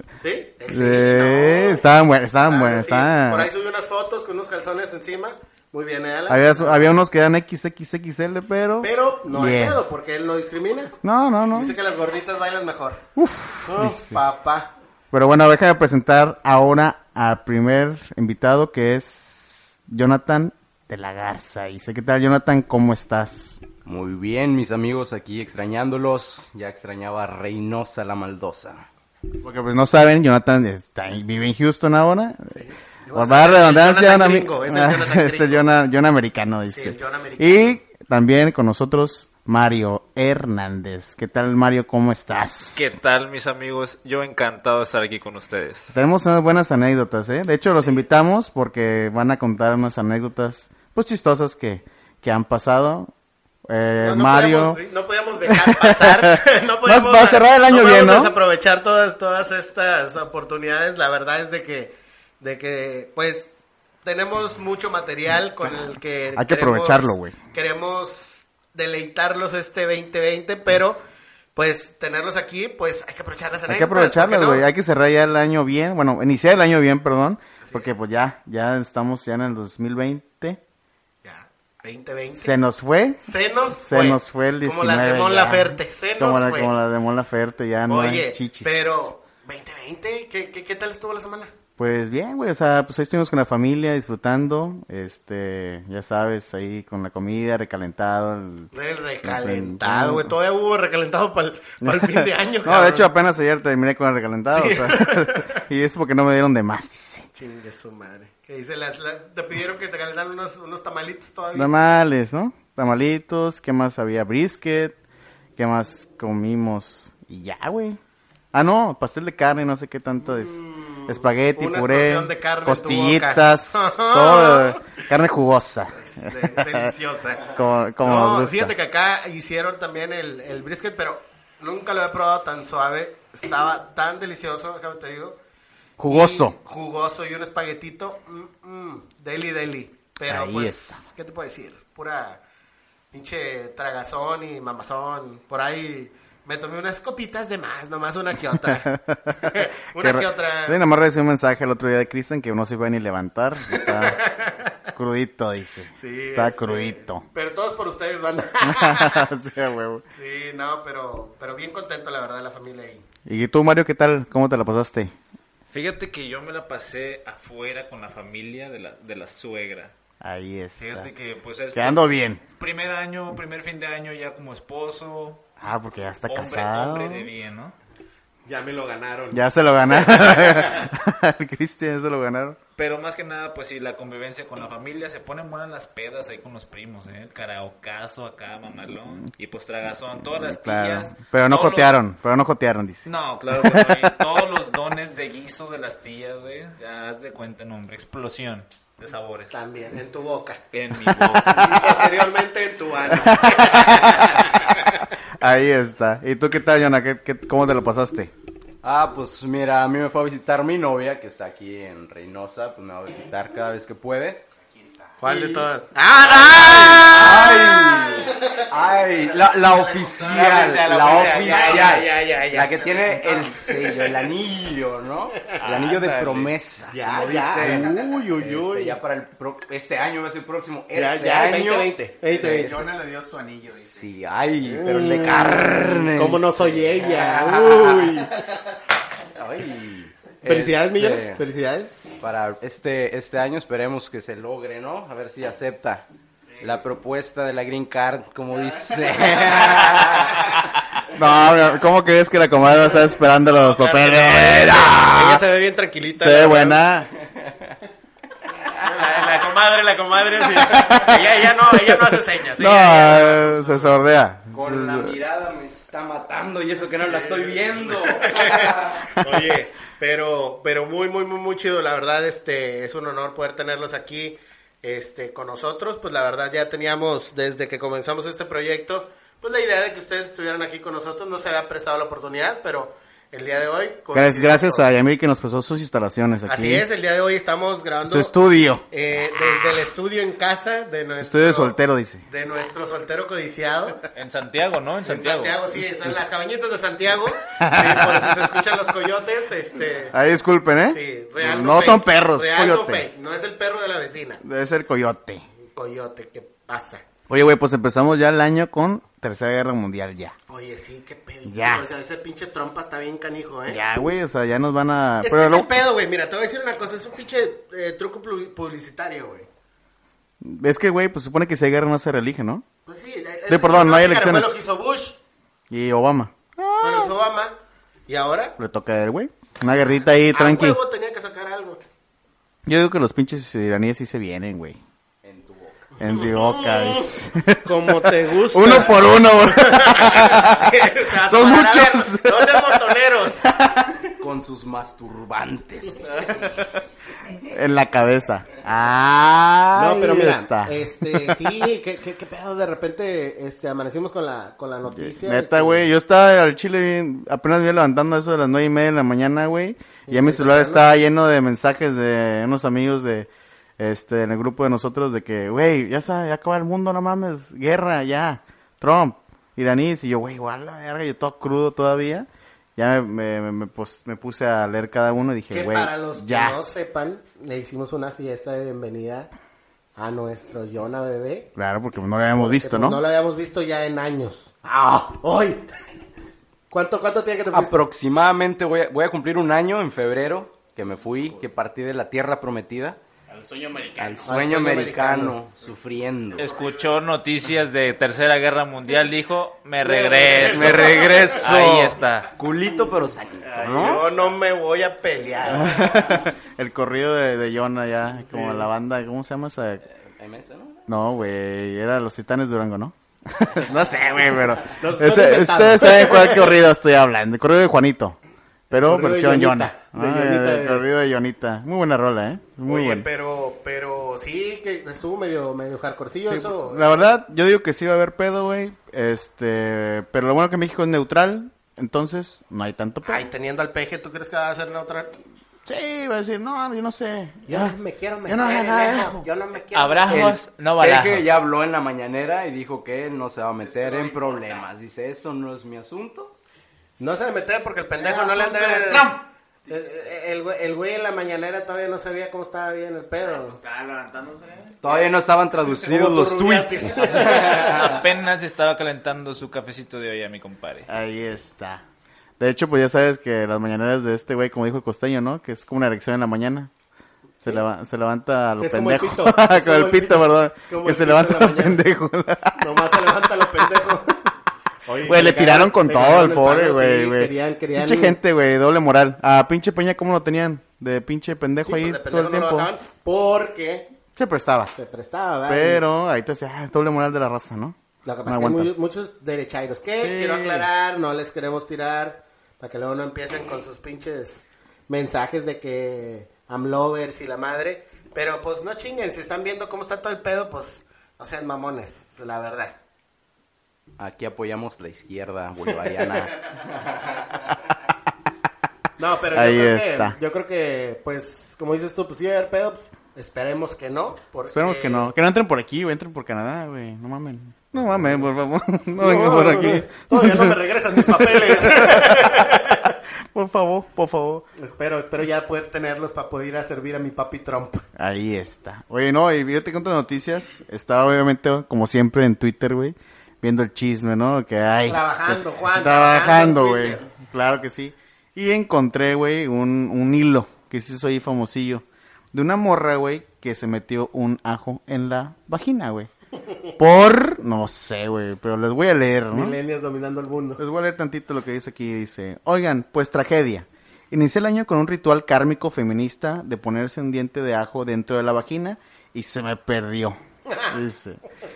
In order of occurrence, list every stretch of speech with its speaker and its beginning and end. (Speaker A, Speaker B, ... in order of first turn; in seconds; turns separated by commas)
Speaker A: 0.2-1.8, Speaker B: 0.7-3.5, Speaker A: 2.4-7.0, Speaker B: 6.3-9.8, Speaker A: 8.8-10.9, Speaker B: 11.0-11.7, Speaker A: 11.5-13.0, Speaker B: 13.2-14.2, Speaker A: 13.6-14.7, Speaker B: 15.1-23.6, Speaker C: 23.8-28.9, Speaker B: 29.4-32.5, Speaker A: 32.5-35.7, Speaker B: 33.1-43.0, Speaker A: 36.7-37.8, Speaker D: 42.7-46.0, Speaker B: 45.9-53.1, Speaker A: 47.7-48.0, Speaker B: 53.6-54.8, Speaker A: 54.0-63.5, Speaker B: 55.5-58.3, Speaker A: 64.0-71.0, Speaker B: 66.3-67.3, Speaker A: 71.5-74.7, Speaker B: 73.7-80.6, Speaker A: 77.6-78.0, Speaker A: 81.2-82.5, Speaker B: 82.3-83.2, Speaker A: 83.2-86.7, Speaker B: 83.7-89.1, Speaker A: 87.9-91.5, Speaker B: 91.8-98.7, Speaker A: 98.7-103.1, Speaker B: 99.2-100.3, Speaker B: 101.8-107.3, Speaker A: 104.5-105.6, Speaker A: 107.3-111.7, Speaker B: 111.5-115.0, Speaker B: 115.6-118.0, Speaker B: 118.5-126.9, Speaker A: 120.2-124.8, Speaker A: 125.9-135.4, Speaker B: 127.5-128.7, Speaker B: 136.0-136.6, Speaker A: 136.1-142.4, Speaker B: 140.2-141.0, Speaker A: 143.1-150.8, Speaker B: 148.7-154.2, Speaker A: 153.7-154.7, Speaker B: 154.9-157.2, Speaker A: 155.9-159.3, Speaker B: 158.6-160.0, Speaker A: 160.1-163.0, Speaker B: 163.2-165.1, Speaker D: 165.7-169.9, Speaker B: 170.2-171.1, Speaker D: 170.8-175.4, Speaker B: 171.7-172.4, Speaker B: 175.6-177.3, Speaker D: 176.3-177.7, Speaker A: 178.4-180.9, Speaker B: 179.3-182.6, Speaker D: 182.8-191.9, Speaker B: 190.3-193.1, Speaker D: 193.1-199.6, Speaker B: 193.6-194.0, Speaker A: 199.5-200.6, Speaker D: 200.7-201.7, Speaker B: 201.1-201.9, Speaker A: 201.5-205.0, Speaker B: 203.1-208.3, Speaker C: 208.8-214.4, Speaker B: 214.8-215.1, Speaker A: 215.2-218.2, Speaker C: 215.2-215.7, Speaker C: 216.3-232.8, Speaker B: 216.4-218.6, Speaker B: 219.2-220.7, Speaker A: 220.2-224.3, Speaker B: 221.5-221.9, Speaker B: 222.9-223.4, Speaker D: 225.5-226.5, Speaker A: 226.9-229.0, Speaker B: 227.6-227.9, Speaker A: 230.9-232.8, Speaker B: 232.4-234.1, Speaker C: 233.9-238.2, Speaker B: 234.7-235.2, Speaker A: 234.7-238.4, Speaker C: 239.3-241.4, Speaker A: 240.4-242.0, Speaker C: 242.2-246.1, Speaker C: 246.6-250.6, Speaker B: 251.1-255.4, Speaker A: 252.8-256.8, Speaker B: 256.2-257.1, Speaker C: 257.3-257.7, Speaker A: 258.7-264.0, Speaker B: 260.6-265.1, Speaker C: 264.5-269.2, Speaker A: 267.0-284.9, Speaker B: 284.1-286.8, Speaker A: 286.5-291.8, Speaker B: 288.1-288.8, Speaker B: 291.2-292.2, Speaker A: 292.3-294.0, Speaker D: 294.1-295.6, Speaker A: 295.0-300.1, Speaker B: 295.8-296.2, Speaker B: 297.6-298.4, Speaker B: 300.1-303.1, Speaker A: 300.9-304.4, Speaker B: 304.4-305.4, Speaker A: 305.7-307.0, Speaker B: 307.3-310.3, Speaker A: 310.5-313.8, Speaker B: 311.4-311.9, Speaker B: 313.7-315.7, Speaker A: 315.2-319.5, Speaker B: 320.4-322.6, Speaker A: 322.9-325.2, Speaker B: 323.5-324.6, Speaker B: 325.7-327.1, Speaker A: 326.8-327.6, Speaker A: 328.1-328.6, Speaker B: 328.6-330.8, Speaker A: 329.6-331.8, Speaker B: 332.6-334.8, Speaker C: 335.2-335.9, Speaker B: 336.0-342.8, Speaker A: 336.2-337.1, Speaker A: 337.6-343.5, Speaker B: 343.4-344.1, Speaker C: 344.2-346.3, Speaker B: 346.1-346.7, Speaker B: 347.3-351.5, Speaker A: 349.7-355.9, Speaker B: 354.9-376.6, Speaker A: 360.1-360.9, Speaker A: 375.5-379.3, Speaker A: 379.9-381.5, Speaker B: 381.6-383.0, Speaker A: 382.4-385.8, Speaker A: 386.7-387.8, Speaker C: 387.5-393.0, Speaker B: 393.3-394.4, Speaker C: 394.0-396.5, Speaker A: 394.2-395.4, Speaker D: 396.4-402.3, Speaker A: 399.8-401.4, Speaker C: 400.4-404.0, Speaker B: 403.4-404.1, Speaker A: 403.6-406.1, Speaker B: 405.4-409.8, Speaker A: 408.2-408.7, Speaker C: 410.0-410.8, Speaker B: 410.9-418.2, Speaker A: 414.8-416.5, Speaker B: 418.7-423.1, Speaker A: 418.7-420.8, Speaker A: 422.6-427.1, Speaker B: 426.3-433.3, Speaker A: 433.0-435.1, Speaker B: 435.6-439.3, Speaker A: 437.4-440.3, Speaker D: 439.7-441.3, Speaker C: 440.1-446.3, Speaker B: 443.6-444.6, Speaker A: 447.0-449.1, Speaker B: 448.0-449.9, Speaker A: 449.7-453.6, Speaker B: 453.2-454.8, Speaker C: 454.8-457.9, Speaker A: 455.8-457.9, Speaker D: 457.2-460.9, Speaker B: 460.9-461.8, Speaker B: 462.4-466.7, Speaker B: 467.4-472.7, Speaker A: 468.6-471.8, Speaker A: 472.6-474.3, Speaker A: 474.9-478.2, Speaker B: 475.0-482.7, Speaker A: 481.6-483.9, Speaker B: 484.1-484.7, Speaker A: 484.7-485.8, Speaker B: 485.5-488.7, Speaker A: 488.0-502.8, Speaker B: 490.0-490.7, Speaker C: 504.0-507.3, Speaker A: 509.0-515.1, Speaker B: 509.3-510.2, Speaker B: 514.5-524.5, Speaker A: 519.0-523.0, Speaker A: 524.5-527.9, Speaker B: 528.0-546.1, Speaker A: 534.9-537.0, Speaker B: 546.8-549.6, Speaker A: 549.3-550.6, Speaker B: 550.6-561.2